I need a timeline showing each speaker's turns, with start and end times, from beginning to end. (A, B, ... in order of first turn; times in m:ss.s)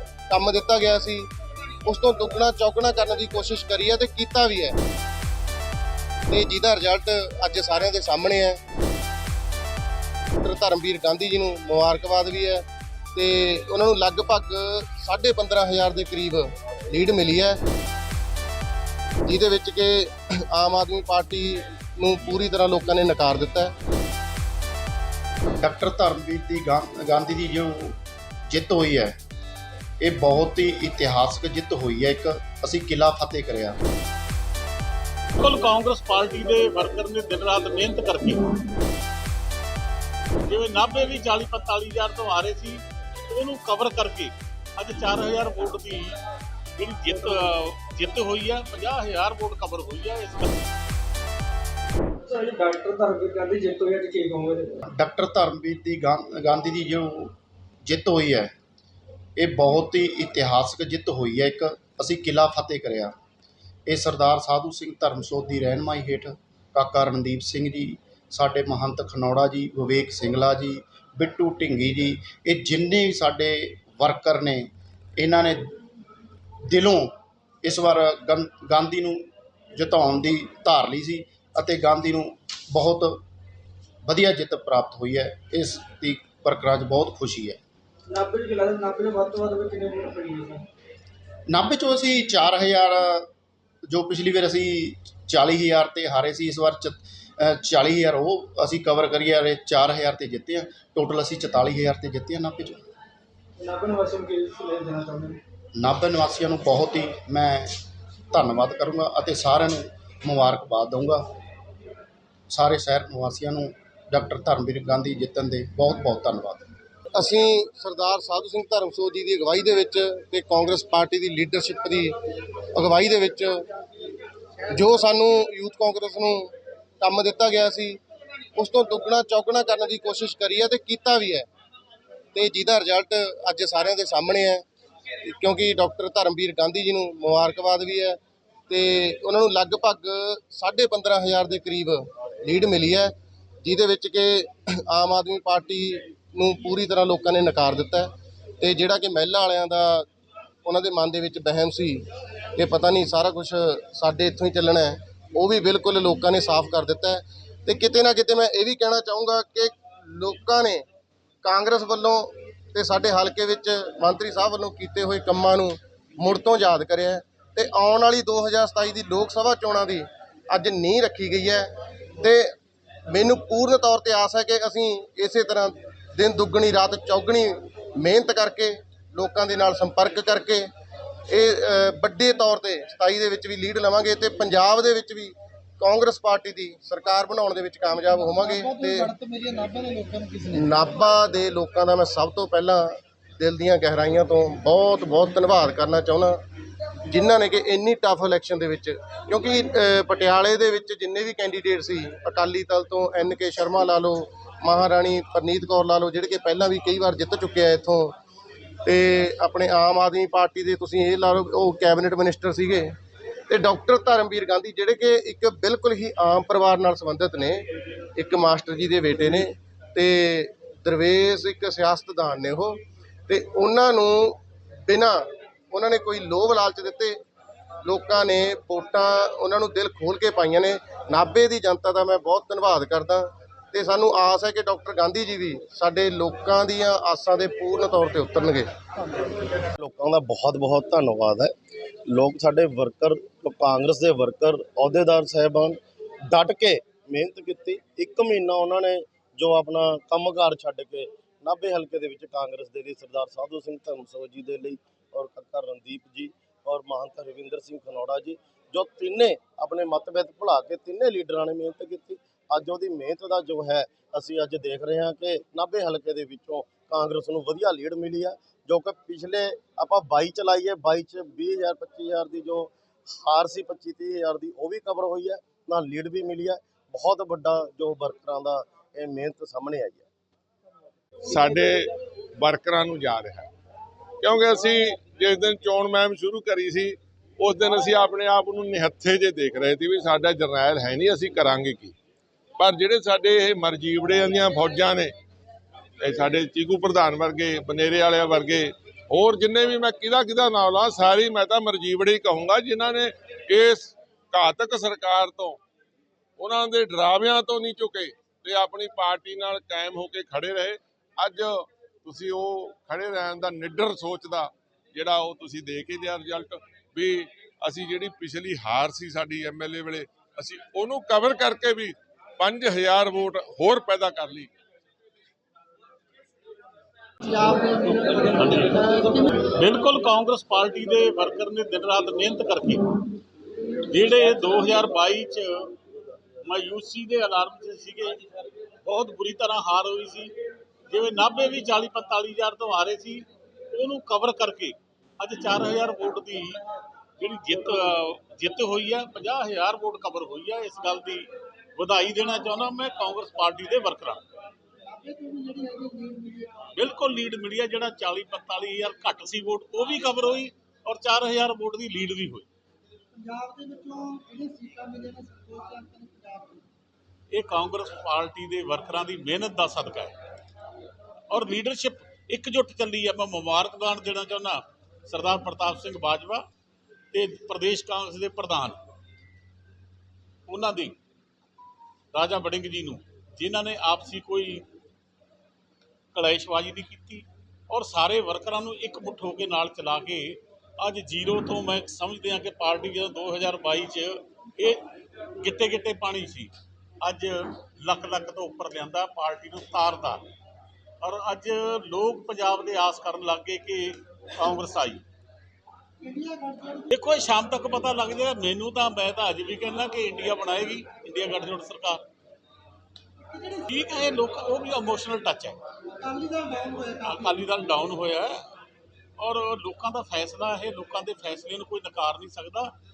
0:00.3-0:01.3 A
0:01.8-0:04.8 A
0:06.3-0:08.6 A
0:10.4-0:17.6 A
0:19.2-0:23.7 A
0:25.6-0:28.0 B
0:28.5-0:29.1 B
0:30.0-0:33.8 B
0:35.4-0:38.6 C
0:40.4-0:46.2 C
0:46.8-0:50.5 C
0:52.2-0:54.8 D
0:54.9-0:58.5 B
0:59.4-1:03.1 B
1:03.9-1:14.7 B
1:15.2-1:15.8 B
1:16.7-1:23.2 B
1:24.0-1:27.6 B
1:28.1-1:30.7 D
1:31.5-1:33.3 B
1:33.9-1:42.8 B
1:43.6-1:45.4 D
1:45.8-1:47.7 B
1:48.3-1:51.2 B
1:52.5-1:56.6 B
1:57.1-2:02.1 A
2:02.7-2:03.6 A
2:04.7-2:08.0 A
2:08.6-2:11.5 A
2:12.3-2:14.6 A
2:15.2-2:18.2 A
2:18.7-2:30.0 A
2:30.6-2:32.0 A
2:32.6-2:40.8 A
2:41.4-2:52.5 A
2:53.1-3:00.6 A
3:01.3-3:09.1 A
3:08.3-3:10.6 E
3:10.5-3:16.4 A
3:17.1-3:28.1 A
3:28.8-3:32.9 A
3:33.5-3:37.6 A
3:38.2-3:47.2 A
3:47.8-3:58.7 A
3:59.8-4:01.5 F
4:02.1-4:40.1 F
4:41.2-4:41.9 G
4:42.4-4:43.5 G
4:44.2-4:51.9 G
4:52.6-4:55.1 G
4:56.0-5:05.6 G
5:06.4-5:24.5 G
5:27.4-5:32.9 C
5:27.5-5:27.9 E
5:33.9-5:35.8 C
5:36.4-5:38.2 C
5:38.8-5:40.3 C
5:40.9-5:46.6 C
5:47.2-5:54.2 C
5:54.8-5:56.7 E
5:56.7-6:02.5 C
6:03.1-6:06.6 E
6:07.3-6:10.1 C
6:11.3-6:16.4 C
6:17.1-6:18.8 C
6:20.5-6:21.0 C
6:22.1-6:24.6 C
6:26.1-6:34.9 C
6:35.4-6:36.5 C
6:37.0-6:40.2 C
6:41.0-6:45.0 C
6:46.0-6:46.9 E
6:46.9-6:52.0 C
6:53.3-6:53.6 E
6:53.7-6:55.6 C
6:55.9-6:57.4 E
6:57.0-6:58.4 C
6:59.2-7:02.7 C